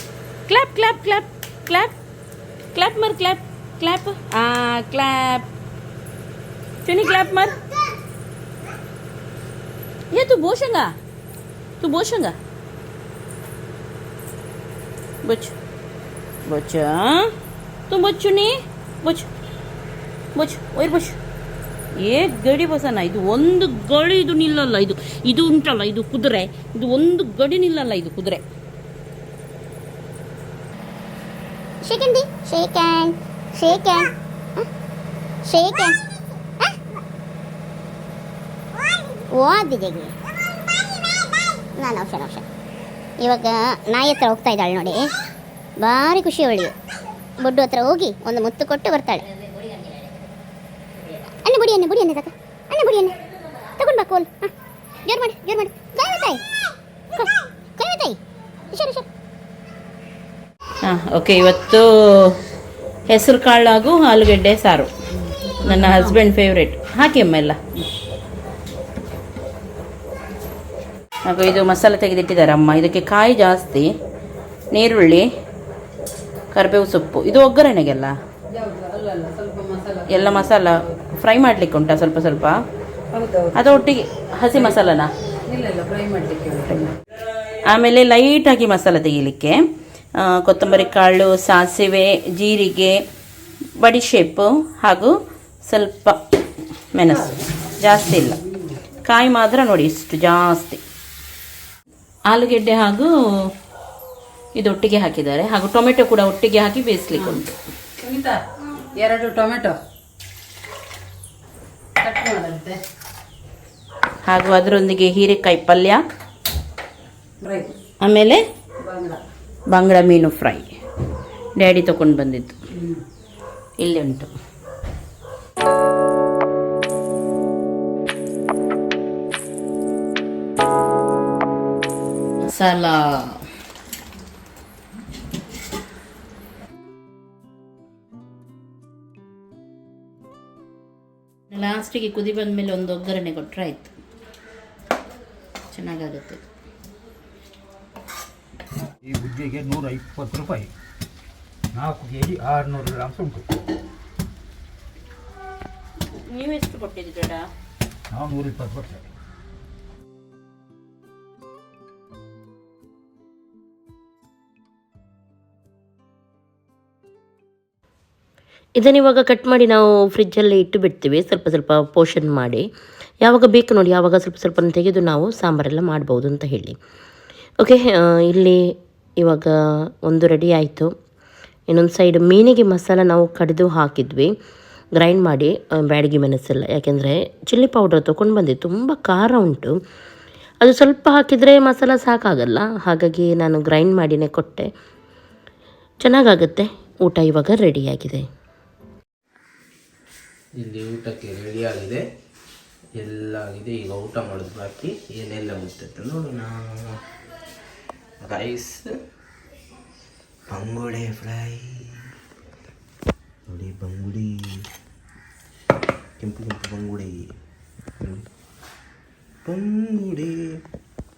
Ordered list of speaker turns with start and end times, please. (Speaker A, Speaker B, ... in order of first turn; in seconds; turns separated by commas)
Speaker A: 0.5-1.9, Speaker A: 2.8-5.4, Speaker A: 6.8-7.5, Speaker A: 10.1-10.9, Speaker A: 11.8-12.3, Speaker A: 16.5-16.9, Speaker A: 17.9-18.5, Speaker A: 20.4-21.1, Speaker A: 22.0-28.4, Speaker B: 31.8-34.6, Speaker B: 35.5-36.0, Speaker B: 39.4-40.1, Speaker B: 41.8-42.4, Speaker B: 43.2-45.1, Speaker B: 45.8-46.7, Speaker B: 47.4-49.3, Speaker B: 51.5-53.1, Speaker B: 53.8-54.5, Speaker B: 55.1-56.4, Speaker B: 57.1-58.2, Speaker B: 58.7-59.0, Speaker A: 60.9-61.8, Speaker A: 63.1-64.9, Speaker C: 65.2-66.2, Speaker A: 65.7-67.6, Speaker A: 71.3-73.8, Speaker A: 74.8-75.2, Speaker A: 76.5-78.1, Speaker C: 78.5-81.0, Speaker A: 80.1-82.5, Speaker C: 83.1-84.0, Speaker A: 83.6-85.0, Speaker C: 84.5-86.9, Speaker A: 87.7-89.5, Speaker A: 90.4-92.9, Speaker A: 93.8-95.1, Speaker A: 95.7-96.1, Speaker A: 96.9-97.2, Speaker C: 97.1-97.4, Speaker A: 97.8-98.3, Speaker C: 98.0-98.8, Speaker A: 99.1-100.8, Speaker A: 102.3-103.1, Speaker A: 104.6-107.4, Speaker C: 107.1-107.4, Speaker C: 108.0-108.4, Speaker C: 108.9-109.8, Speaker C: 112.0-112.8, Speaker A: 114.3-116.0, Speaker C: 117.4-117.7, Speaker A: 118.0-118.4, Speaker C: 118.8-119.2, Speaker A: 119.7-120.6, Speaker A: 121.6-122.5, Speaker C: 122.7-123.0, Speaker A: 123.8-124.3, Speaker A: 132.5-133.0, Speaker A: 141.5-143.9, Speaker A: 145.7-146.4, Speaker D: 149.1-150.7, Speaker D: 151.8-153.4, Speaker A: 156.3-157.5, Speaker D: 158.1-159.0, Speaker E: 168.8-172.7, Speaker E: 173.2-176.8, Speaker E: 177.6-178.6, Speaker E: 179.2-179.5, Speaker E: 180.0-180.9, Speaker E: 181.7-184.3, Speaker E: 185.0-189.7, Speaker E: 190.6-194.7, Speaker E: 196.0-198.2, Speaker F: 200.6-202.0, Speaker F: 203.0-207.0, Speaker F: 208.2-208.9, Speaker F: 210.5-211.8, Speaker F: 213.5-214.4, Speaker F: 216.2-217.2, Speaker F: 218.0-218.2, Speaker F: 219.4-220.3